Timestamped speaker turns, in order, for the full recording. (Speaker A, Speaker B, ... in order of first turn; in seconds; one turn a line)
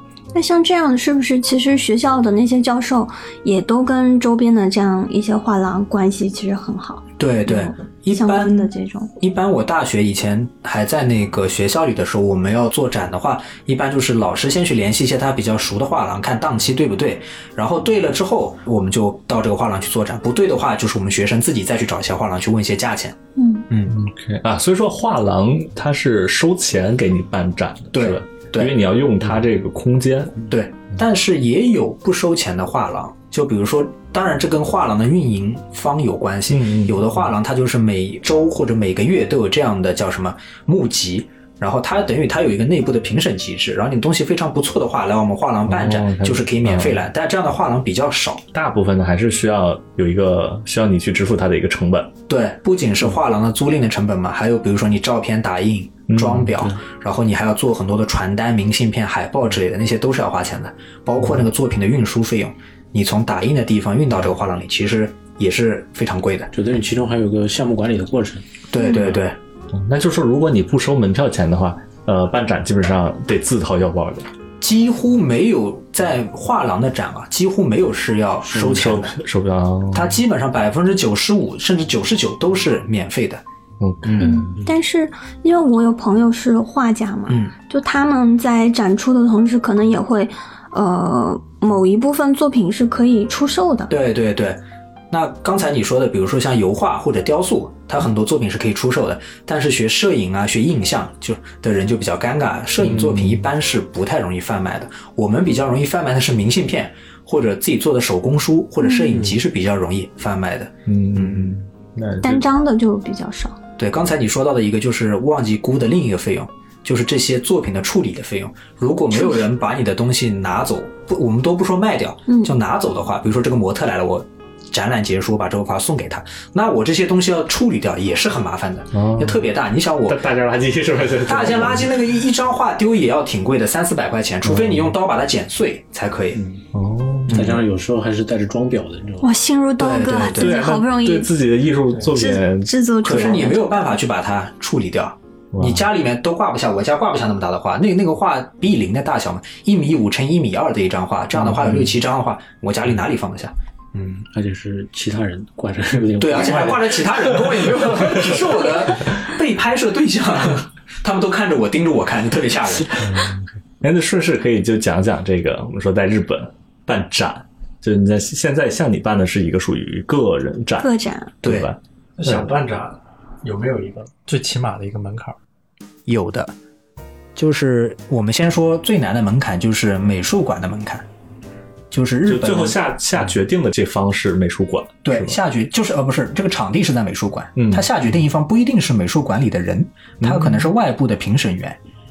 Speaker A: 0.3-9.1
Speaker B: 7.2-23.2
Speaker A: 23.4-23.7
Speaker B: 23.7-24.0
Speaker C: 23.9-30.4
Speaker B: 27.9-28.8
Speaker B: 30.5-48.4
Speaker C: 36.5-37.2
Speaker C: 45.7-47.0
Speaker C: 48.5-52.1
Speaker B: 52.3-66.5
Speaker C: 56.1-56.5
Speaker D: 56.5-56.8
Speaker D: 66.5-68.5
Speaker B: 68.7-69.4
Speaker C: 69.7-74.3
Speaker B: 74.6-79.2
Speaker C: 78.5-80.2
Speaker B: 79.9-83.4
Speaker C: 83.8-84.5
Speaker B: 84.0-84.4
Speaker A: 84.2-93.9
Speaker B: 87.3-87.5
Speaker B: 93.9-111.6
Speaker C: 102.8-103.5
Speaker A: 108.8-109.1
Speaker C: 110.9-112.5
Speaker A: 112.2-113.6
Speaker B: 113.8-130.2
Speaker A: 119.1-119.4
Speaker A: 122.3-122.6
Speaker C: 128.9-129.5
Speaker C: 130.0-132.1
Speaker B: 131.3-136.4
Speaker C: 134.4-134.9
Speaker D: 136.3-136.6
Speaker C: 136.7-137.6
Speaker B: 137.3-137.6
Speaker D: 137.3-139.3
Speaker A: 139.2-141.3
Speaker B: 139.8-140.6
Speaker C: 140.4-142.8
Speaker A: 142.1-143.7
Speaker B: 143.0-154.2
Speaker C: 145.5-145.9
Speaker D: 154.2-158.2
Speaker B: 156.2-163.3
Speaker C: 163.0-170.9
Speaker A: 170.8-171.3
Speaker B: 171.4-171.7
Speaker C: 171.4-172.4
Speaker E: 172.2-175.4
Speaker B: 176.1-176.6
Speaker B: 177.4-181.1
Speaker B: 181.9-182.8
Speaker C: 182.2-185.4
Speaker B: 185.0-191.8
Speaker C: 187.6-187.9
Speaker C: 190.2-190.7